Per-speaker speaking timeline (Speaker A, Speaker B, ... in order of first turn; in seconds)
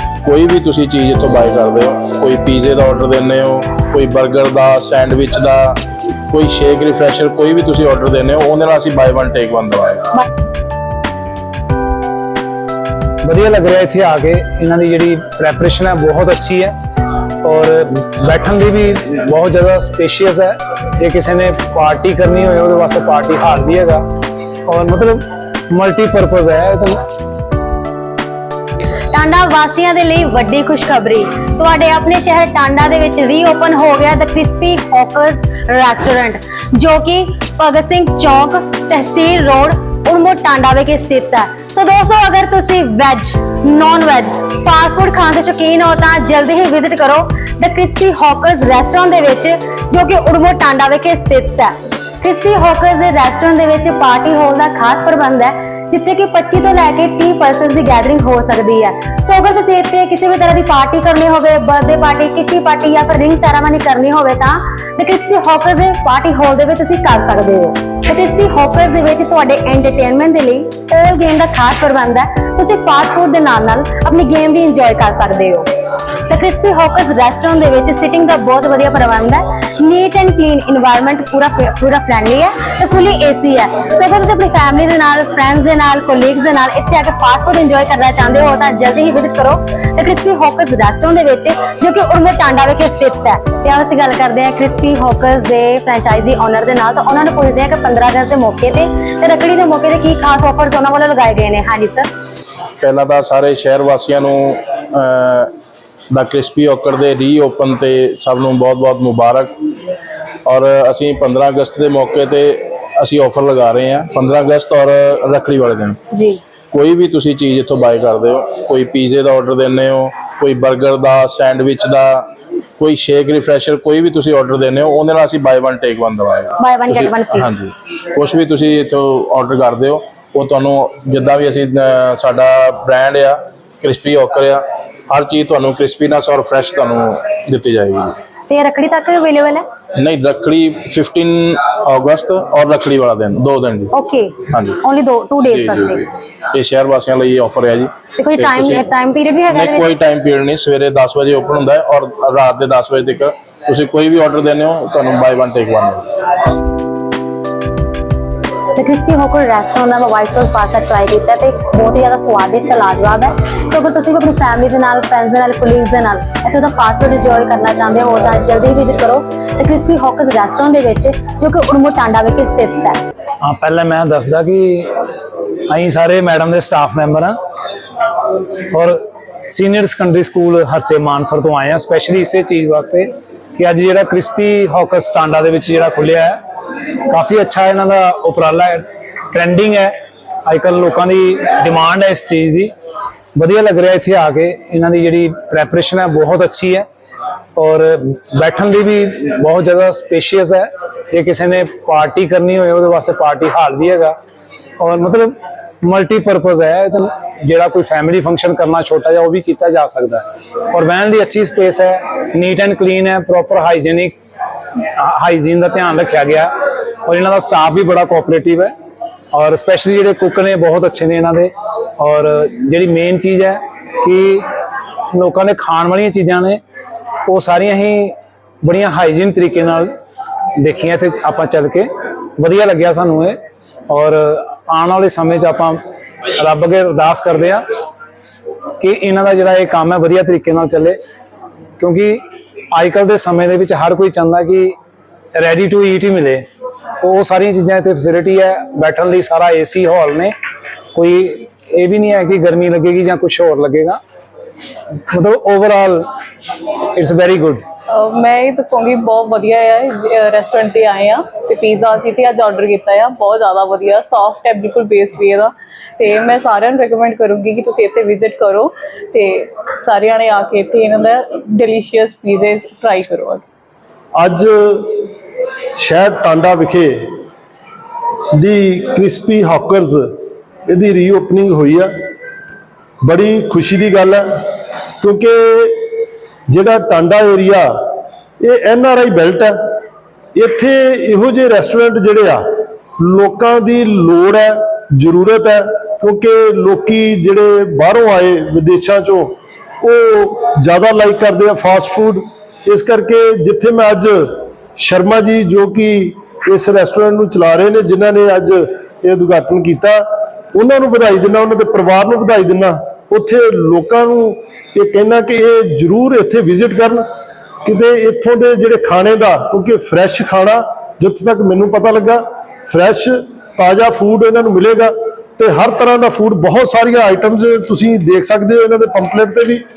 Speaker A: 0.2-5.8, 6.3-10.1, 102.8-105.5, 106.1-109.5, 110.5-116.0, 116.7-122.3, 122.8-138.2, 140.0-143.9, 144.5-144.8, 145.4-148.9, 149.5-156.1
Speaker B: 13.2-16.8, 17.4-24.0, 24.7-27.0, 173.4-174.9, 175.7-177.4, 178.6-186.4, 187.1-189.9, 190.4-192.7, 193.3-196.9, 197.6-204.2, 204.8-214.2, 214.8-218.7, 219.3-224.5, 225.1-226.6, 227.3-229.9, 230.6-237.6, 238.8-241.0, 241.8-244.8, 245.3-246.5, 247.0-250.3, 250.9-254.0, 255.1-256.1, 256.8-257.6
Speaker C: 29.1-75.7, 76.3-102.1, 116.1-116.4, 126.6-127.5, 138.5-139.7, 143.9-146.1, 148.2-149.9, 158.8-173.0
Speaker D: 257.9-273.4
Speaker E: 274.2-275.1, 275.8-277.2, 278.3-280.1, 280.7-281.9, 283.0-284.5, 285.0-285.9, 286.5-287.7, 288.4-289.8, 290.4-292.5, 293.0-317.0, 317.6-329.6